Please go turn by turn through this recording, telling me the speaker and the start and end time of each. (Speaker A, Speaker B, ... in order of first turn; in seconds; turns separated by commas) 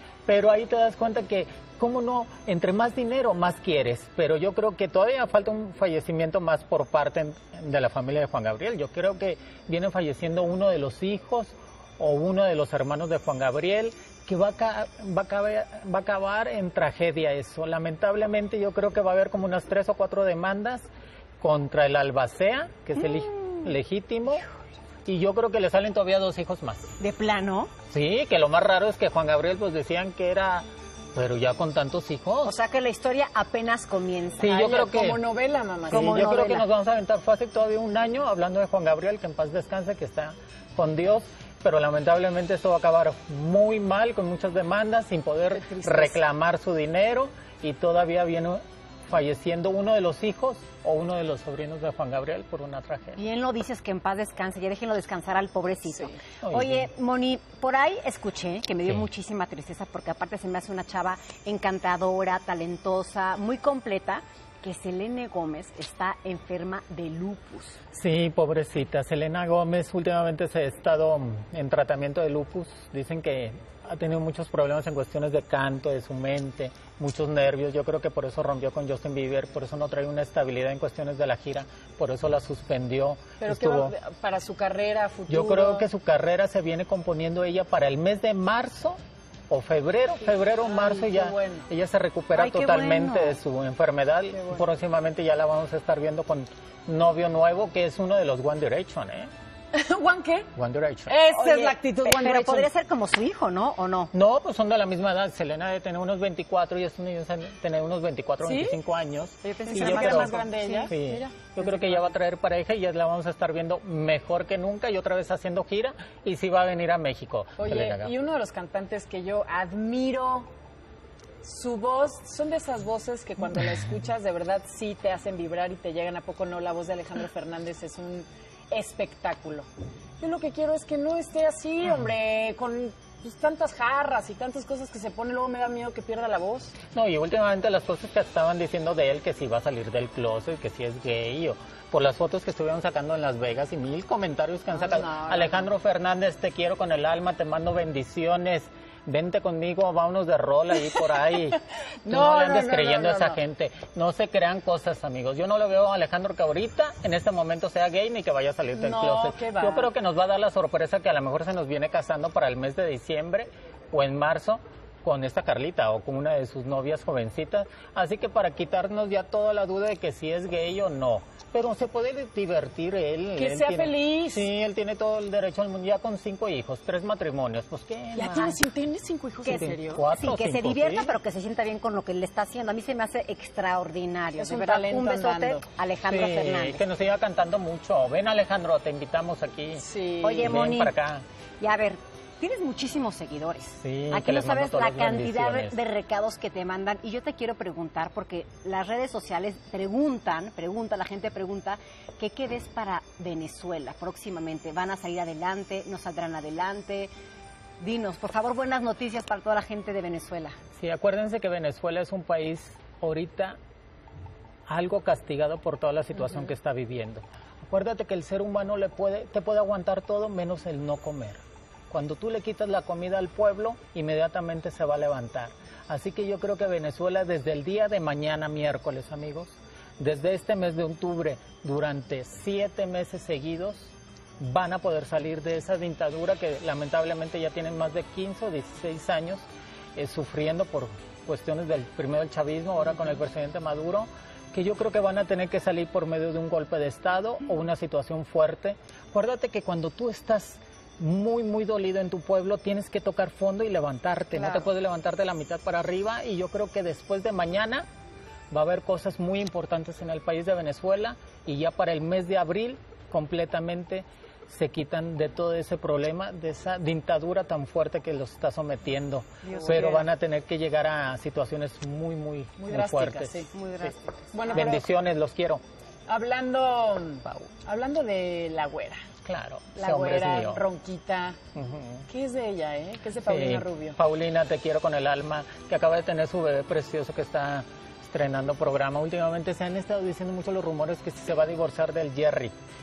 Speaker A: 0.2-20.9, Speaker A: 21.4-24.4, Speaker A: 25.1-26.9, Speaker B: 27.0-27.7, Speaker A: 27.9-32.6, Speaker B: 32.4-34.6, Speaker A: 34.4-35.2, Speaker C: 34.5-36.3, Speaker B: 35.9-36.6, Speaker A: 35.9-53.2, Speaker C: 45.5-46.2, Speaker B: 53.2-67.8, Speaker C: 55.9-56.2, Speaker A: 56.4-56.9, Speaker A: 67.9-84.0, Speaker C: 83.4-85.9, Speaker A: 85.3-89.0, Speaker A: 89.5-99.3, Speaker C: 90.3-91.7, Speaker B: 92.3-93.4, Speaker C: 99.7-100.5, Speaker A: 100.5-101.2, Speaker C: 101.1-102.7, Speaker B: 101.3-104.1, Speaker A: 104.1-118.1, Speaker C: 108.4-108.8, Speaker B: 109.5-110.9, Speaker C: 109.6-112.1, Speaker C: 117.6-120.5, Speaker C: 121.4-129.7, Speaker C: 130.2-136.8, Speaker A: 136.9-178.6, Speaker C: 144.7-145.7, Speaker C: 152.0-153.4, Speaker C: 158.8-159.9, Speaker C: 173.4-174.5, Speaker C: 178.1-180.1, Speaker B: 179.4-186.8, Speaker A: 179.4-181.1, Speaker C: 184.4-185.7, Speaker A: 186.0-189.8, Speaker C: 189.8-190.6, Speaker B: 190.2-190.9, Speaker A: 190.4-191.2, Speaker B: 191.6-207.1, Speaker A: 193.8-195.8, Speaker B: 207.8-210.6, Speaker A: 210.8-213.6, Speaker A: 214.7-257.8, Speaker B: 254.4-254.7, Speaker A: 258.5-273.9, Speaker B: 269.4-269.9, Speaker C: 269.5-270.1, Speaker C: 272.6-273.5, Speaker B: 273.5-274.8, Speaker C: 274.3-274.9, Speaker A: 274.5-275.6, Speaker C: 276.1-279.0, Speaker A: 277.2-277.5, Speaker A: 279.2-280.6, Speaker C: 279.8-281.4, Speaker A: 281.6-282.1, Speaker C: 282.1-284.0, Speaker A: 283.2-292.5